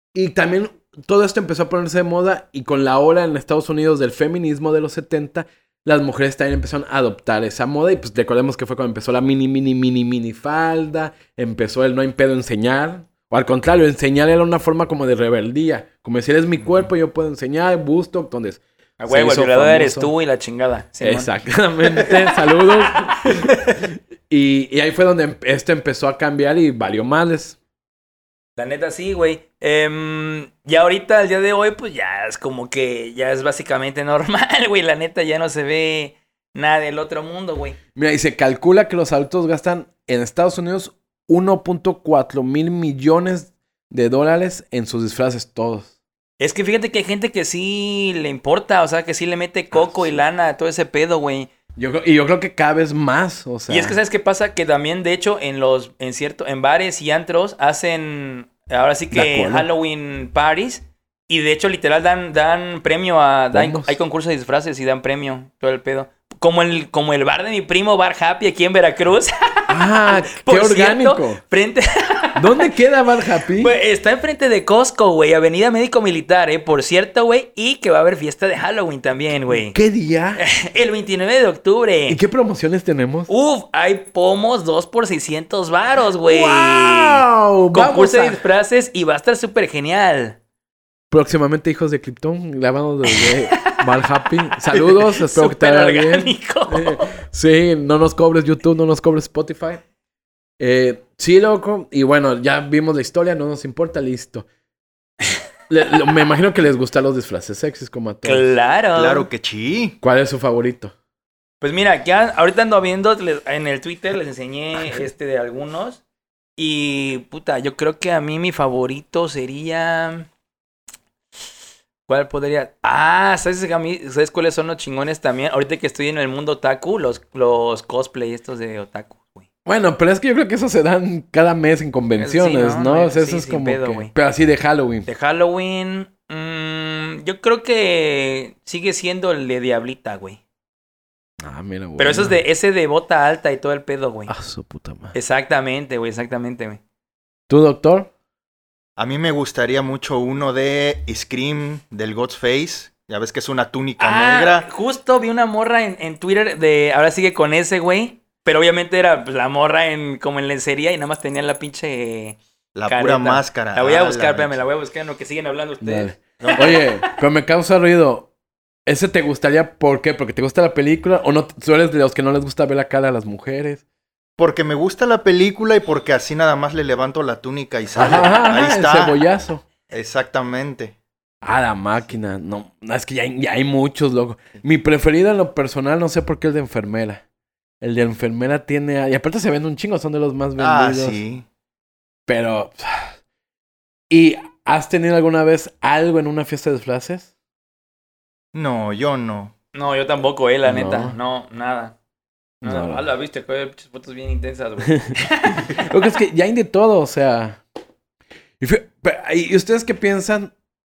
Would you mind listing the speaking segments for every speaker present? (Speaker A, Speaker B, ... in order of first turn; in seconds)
Speaker A: 0.1-20.1, 21.0-27.6, 37.9-45.9, 49.7-50.1, 51.8-54.0, 59.1-59.7, 63.5-64.0, 69.7-71.4, 72.3-73.7, 79.5-80.4, 82.1-83.3, 86.2-88.4, 91.1-99.8, 100.6-104.5, 105.7-108.5, 110.0-110.9, 129.7-135.1, 141.4-142.4, 144.3-145.1, 147.5-148.1, 165.8-168.3, 168.8-173.8, 177.9-179.6, 181.4-187.2, 187.8-191.2, 192.3-193.2, 194.1-197.3, 200.6-201.2, 202.6-203.0, 205.7-207.6, 208.6-210.5
Speaker B: 19.0-21.3, 23.2-23.6, 28.6-37.8, 46.4-51.5, 53.7-72.7, 73.6-79.8, 80.4-82.2, 83.3-90.4, 93.1-93.8, 94.7-97.1, 108.2-109.3, 111.6-116.0, 116.6-120.3, 122.1-129.5, 132.2-134.1, 135.1-140.4, 142.0-144.3, 145.1-146.8, 154.0-167.1, 199.7-201.9, 202.6-205.7
Speaker C: 108.9-110.0, 149.0-154.7, 162.7-164.6, 174.4-179.2, 179.9-180.9, 190.6-191.4, 198.5-199.5